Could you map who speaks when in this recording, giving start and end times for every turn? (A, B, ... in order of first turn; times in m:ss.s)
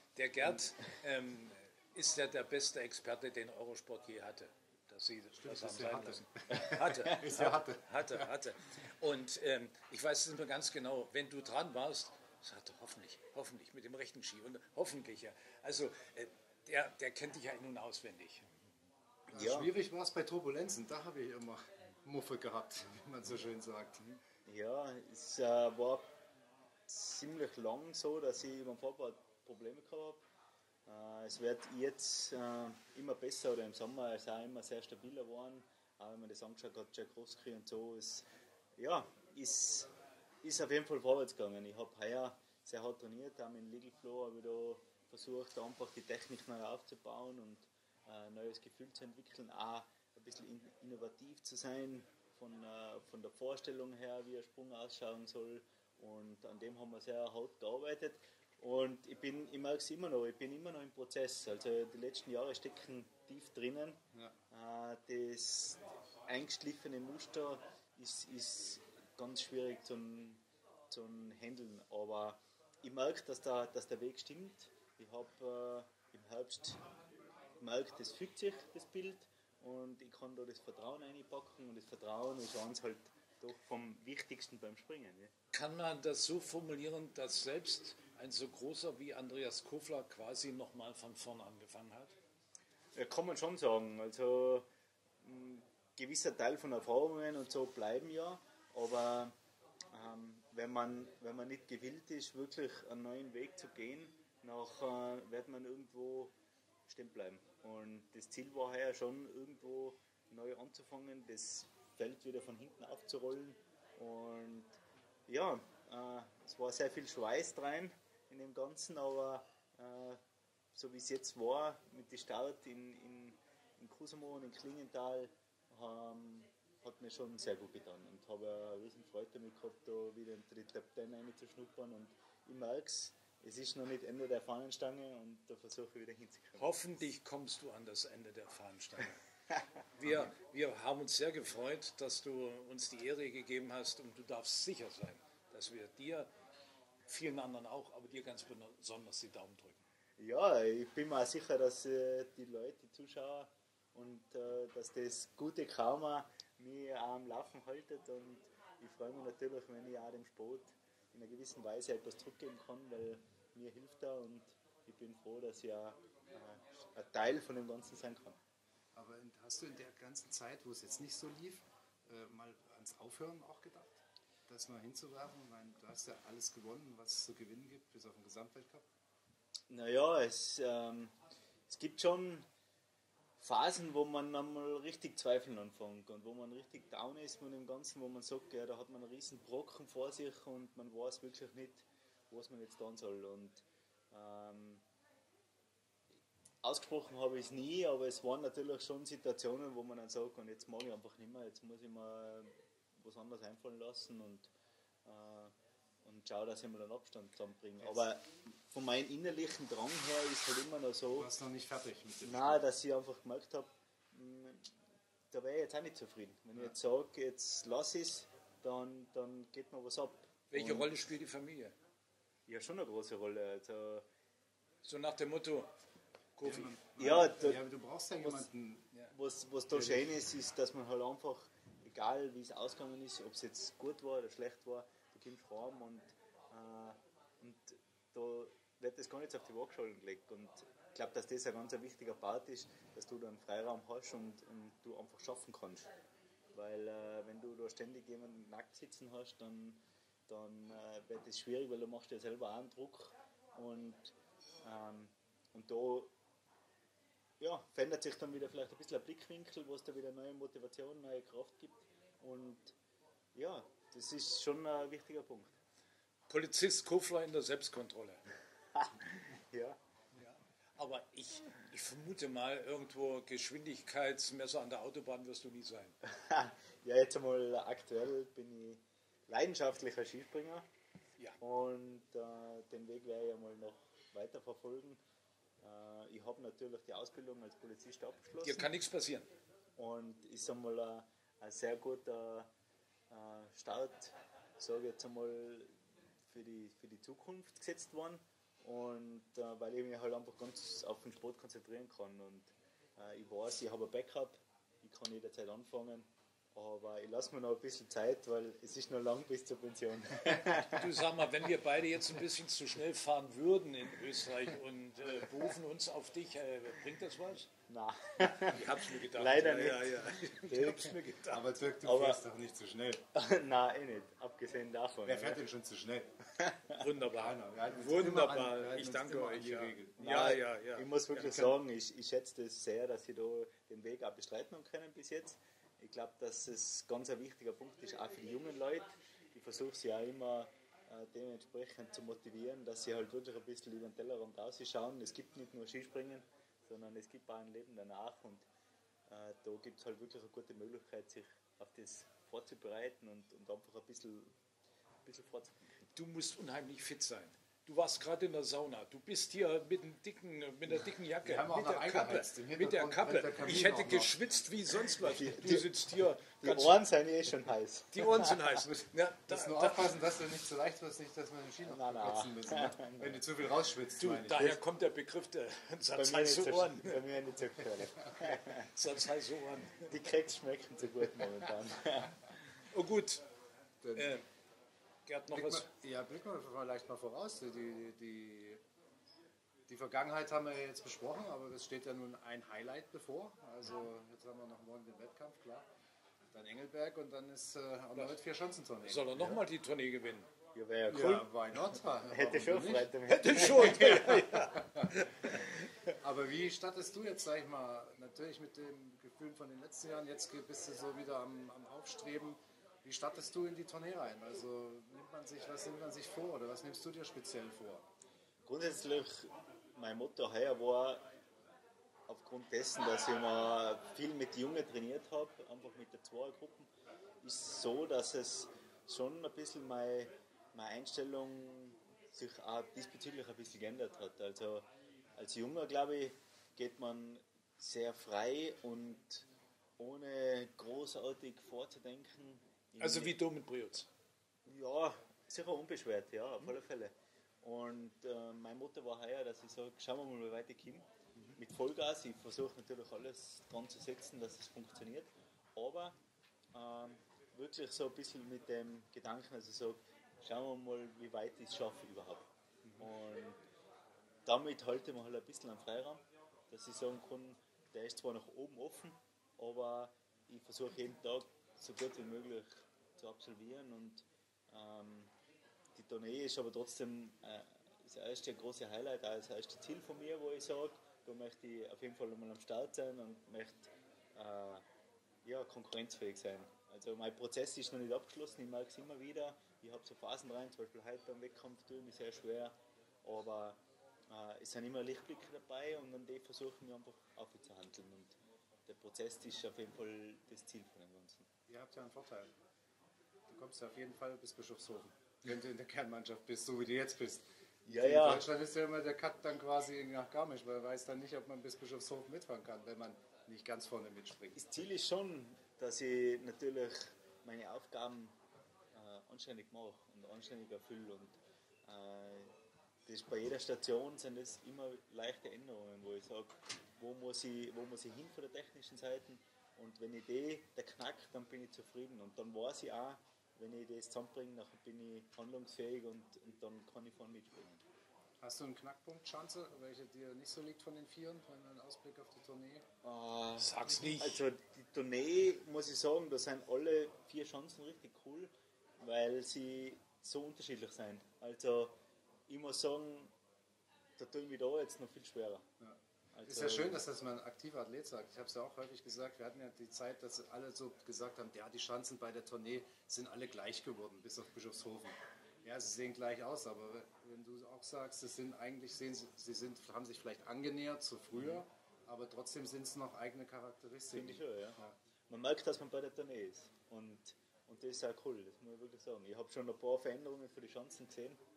0:00.2-0:18.4 A
0:05.3-0:08.2 B
0:19.3-0:24.0 B
0:19.3-0:19.7 C
0:24.4-0:26.0 C
0:26.9-0:30.2 C
0:30.8-0:38.2 C
0:38.8-0:39.9 C
0:40.4-1:16.8 C
1:17.6-1:25.3 C
1:25.5-1:32.2 A
1:32.9-1:34.6 C
1:35.2-1:39.3 C
1:39.9-1:46.3 C
1:46.9-1:54.7 C
1:55.3-2:00.2 C
2:00.7-2:16.7 C
2:16.6-2:19.2 A
2:20.0-2:26.3 A
2:27.1-2:29.8 A
2:30.2-2:48.4 C
2:48.9-2:58.8 B
2:59.7-3:01.1 C
3:01.7-3:02.4 C
3:03.4-3:14.8 C
3:16.6-3:24.5 C
3:25.0-3:25.5 C
3:26.0-3:31.3 C
3:31.1-3:32.6 B
3:32.2-3:34.7 C
3:35.3-3:40.9 C
3:40.5-3:41.7 A
3:42.5-3:44.0 C
3:44.8-3:45.7 A
3:46.4-3:46.8 A
3:46.4-3:48.9 B
3:47.0-3:47.6 C
3:48.2-3:48.5 C
3:49.1-4:05.9 C
3:49.7-3:50.1 B
4:06.5-4:16.1 C
4:17.4-4:22.7 C
4:23.3-4:25.5 C
4:26.3-4:28.2 A
4:28.8-4:29.8 C
4:30.2-4:35.9 A
4:36.0-4:40.6 C
4:41.4-4:45.0 C
4:45.6-4:48.7 C
4:48.4-4:49.3 A
4:49.8-4:52.5 C
4:53.1-4:55.7 C
4:56.3-5:10.9 C
5:10.5-5:17.5 A
5:17.7-5:21.0 C
5:18.2-5:21.5 A
5:21.3-5:23.0 B
5:21.8-5:22.2 C
5:23.1-5:25.4 C
5:25.0-5:26.1 B
5:26.4-5:26.8 C
5:26.8-5:31.3 A
5:27.0-5:30.1 B
5:30.0-5:48.4 C
5:31.2-5:31.5 B
5:49.1-5:54.3 C
5:55.0-5:55.8 C
5:55.9-6:06.8 A
6:01.2-6:04.2 B
6:05.0-6:05.7 C
6:06.4-6:08.5 C
6:07.9-6:09.9 A
6:08.6-6:14.6 B
6:11.6-6:13.2 C
6:14.0-6:17.0 A
6:15.9-6:18.7 C
6:18.6-6:19.9 A
6:19.8-6:22.3 C
6:22.7-6:23.2 A
6:23.8-6:24.2 B
6:23.9-6:24.2 A
6:25.0-6:25.7 A
6:25.3-6:28.6 B
6:29.7-6:35.6 B
6:36.3-6:39.2 B
6:38.8-6:40.3 A
6:40.5-6:41.3 C
6:40.9-6:44.9 B
6:42.0-6:44.0 C
6:43.1-6:45.6 A
6:46.0-6:57.8 B
6:58.4-7:01.0 C
7:02.1-7:06.7 C
7:07.2-7:14.6 C
7:15.2-7:19.3 C
7:19.8-7:23.1 C
7:22.8-7:23.9 A
7:24.4-7:30.8 C
7:31.4-7:36.0 C
7:36.5-7:43.4 C
7:44.2-7:55.1 C
7:55.7-8:04.6 C
8:05.2-8:13.6 C
8:14.1-8:21.3 C
8:21.5-8:22.3 B
8:23.3-8:34.5 B
8:27.7-8:28.3 C
8:34.3-8:38.1 C
8:38.7-8:42.3 C
8:42.8-8:57.6 C
8:58.2-9:02.6 B
9:02.8-9:11.8 C
9:03.4-9:04.2 A
9:12.3-9:13.1 C
9:14.0-9:15.4 C
9:15.6-9:34.7 B
9:16.1-9:16.8 C
9:31.2-9:31.4 C
9:33.9-9:41.2 C